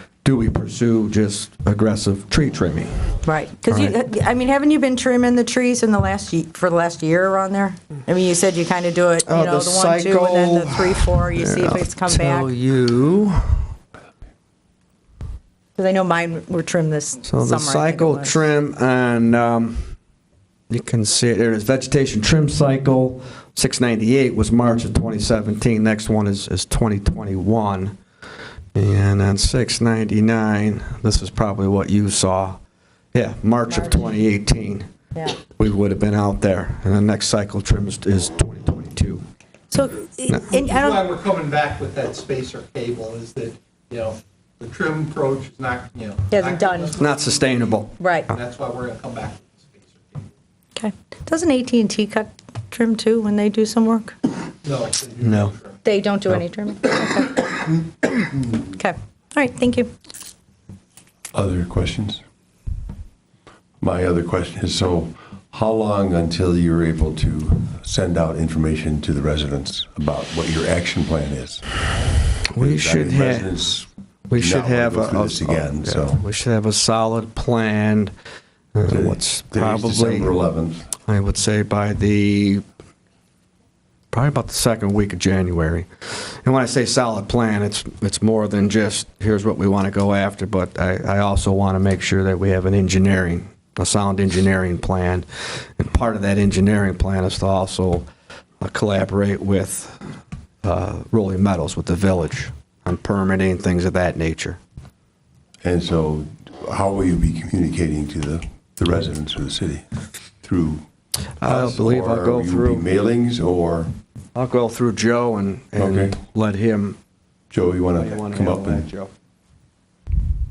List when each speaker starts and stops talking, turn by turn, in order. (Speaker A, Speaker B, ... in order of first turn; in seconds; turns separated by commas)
Speaker A: 0.2-3.1, Speaker B: 3.2-12.5, Speaker A: 3.7-4.0, Speaker A: 9.2-13.6, Speaker B: 15.8-18.5, Speaker A: 17.2-19.9, Speaker A: 20.7-27.9, Speaker A: 28.7-32.6, Speaker A: 33.1-34.9, Speaker B: 33.7-34.0, Speaker A: 35.5-39.2, Speaker B: 39.7-41.0, Speaker C: 40.4-47.8, Speaker B: 46.3-46.9, Speaker A: 47.0-48.3, Speaker B: 48.0-48.3, Speaker C: 48.3-50.3, Speaker B: 50.8-54.1, Speaker C: 54.6-55.8, Speaker A: 55.2-55.5, Speaker B: 55.8-58.1, Speaker B: 58.7-59.9, Speaker D: 61.3-62.2, Speaker D: 63.8-71.7, Speaker A: 72.5-73.7, Speaker D: 72.6-76.2, Speaker A: 74.3-78.1, Speaker A: 78.7-80.3, Speaker D: 78.9-80.9, Speaker A: 81.0-82.6, Speaker A: 84.1-98.1, Speaker A: 98.6-100.0, Speaker A: 100.6-104.6, Speaker D: 105.6-109.8, Speaker D: 110.4-110.8, Speaker A: 111.4-112.8, Speaker D: 111.4-113.9, Speaker A: 114.3-117.0, Speaker D: 115.8-116.2, Speaker D: 117.5-118.8, Speaker A: 117.9-119.1